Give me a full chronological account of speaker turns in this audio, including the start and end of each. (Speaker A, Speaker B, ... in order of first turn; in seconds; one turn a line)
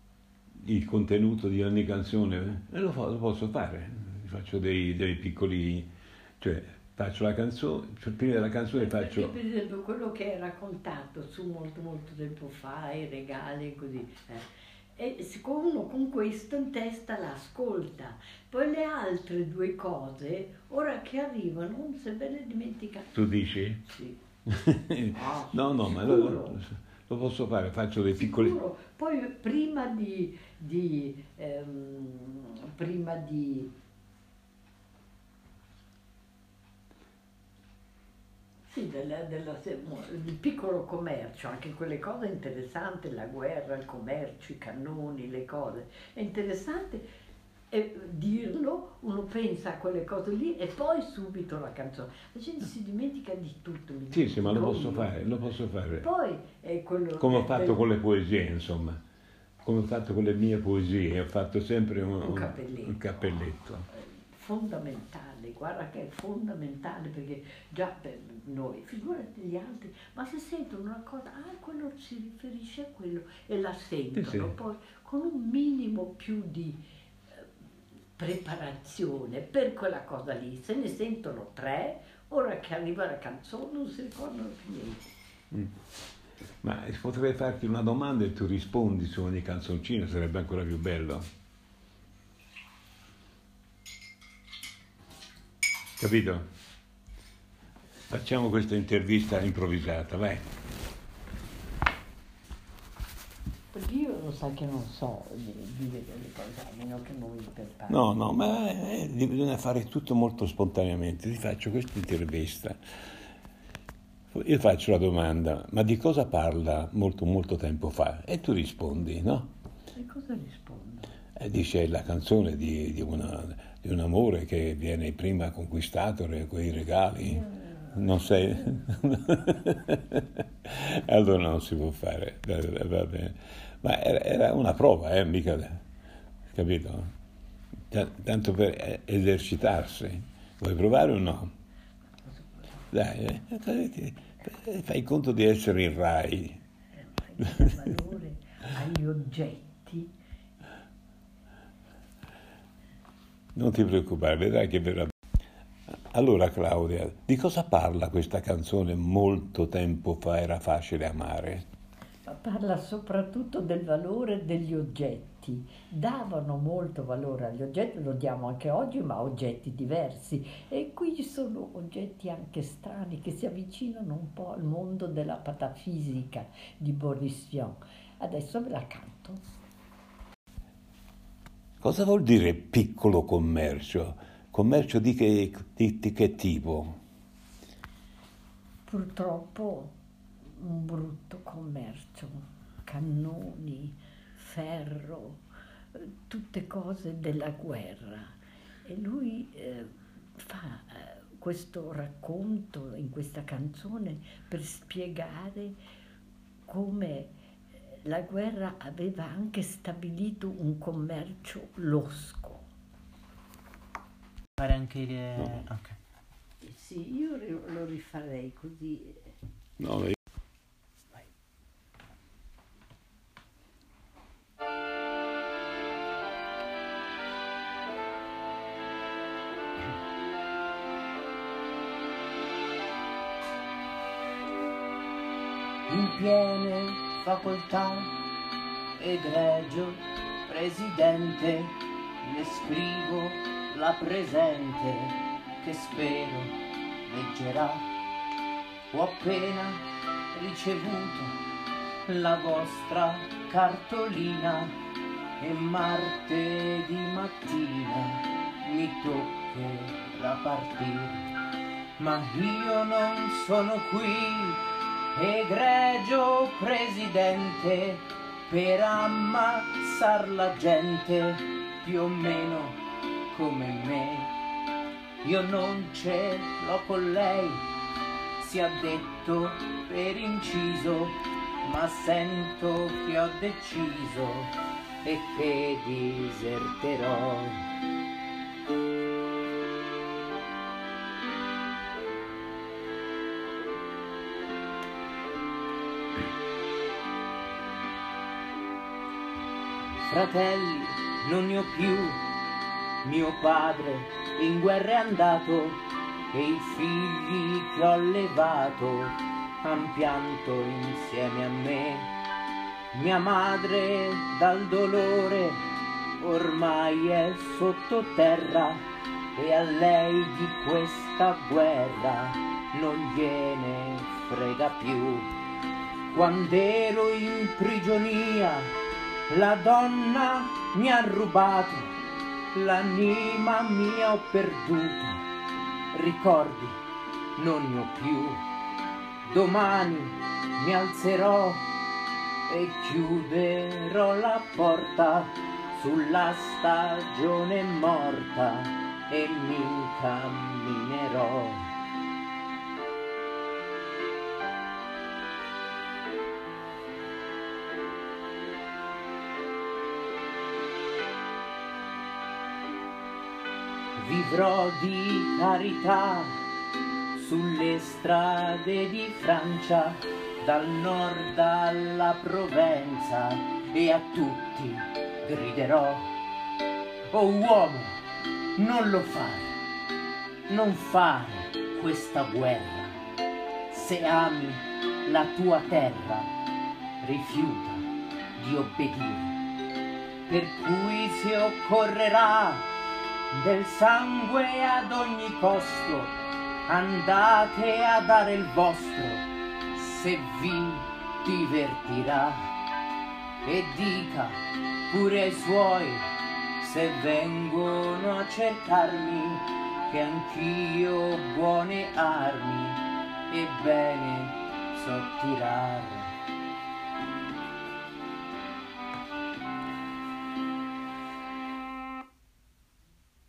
Speaker A: 0.6-9.3
Speaker B: 8.8-23.3
Speaker A: 23.1-23.9
Speaker B: 23.9-24.2
Speaker A: 24.5-28.6
Speaker B: 25.1-26.6
Speaker B: 28.2-33.7
Speaker B: 38.7-47.1
Speaker B: 47.7-55.2
Speaker A: 54.1-56.1
Speaker B: 56.0-57.8
Speaker A: 57.2-59.0
Speaker A: 59.6-63.9
Speaker B: 62.2-77.5
Speaker A: 74.2-74.5
Speaker B: 78.2-85.1
Speaker A: 86.6-91.3
Speaker A: 96.0-96.5
Speaker A: 98.1-100.4
Speaker B: 103.7-108.1
Speaker A: 107.9-112.8
Speaker A: 114.3-119.5
Speaker B: 120.0-121.1
Speaker A: 121.4-135.8
Speaker B: 127.3-128.8
Speaker A: 136.5-137.1
Speaker A: 137.9-141.5
Speaker A: 142.9-146.6
Speaker B: 147.2-150.1
Speaker A: 153.6-155.1
Speaker A: 156.1-161.7
Speaker B: 162.3-179.4
Speaker A: 181.8-187.0
Speaker B: 188.9-190.0
Speaker B: 190.5-195.4
Speaker B: 195.9-205.8
Speaker B: 206.7-212.6
Speaker C: 214.6-216.0
Speaker B: 216.6-219.3
Speaker A: 219.8-220.2
Speaker C: 235.9-238.1
Speaker C: 239.0-247.9
Speaker C: 248.9-251.4
Speaker C: 252.1-254.8
Speaker C: 255.4-261.3
Speaker C: 262.0-264.6
Speaker C: 265.1-274.3
Speaker C: 275.2-277.7
Speaker C: 278.4-287.7
Speaker C: 300.0-302.3
Speaker C: 303.0-312.1
Speaker C: 312.9-315.6
Speaker C: 316.2-325.3
Speaker C: 326.1-328.8
Speaker C: 329.3-332.0
Speaker C: 332.5-335.3
Speaker C: 335.9-336.8
Speaker C: 337.4-338.5
Speaker C: 339.2-341.7
Speaker C: 342.5-351.7
Speaker C: 364.0-366.4
Speaker C: 367.1-376.1
Speaker C: 377.1-378.0
Speaker C: 378.6-379.6
Speaker C: 380.5-383.0
Speaker C: 383.7-386.3
Speaker C: 387.0-389.4
Speaker C: 390.3-392.7
Speaker C: 393.3-402.5
Speaker C: 403.4-416.1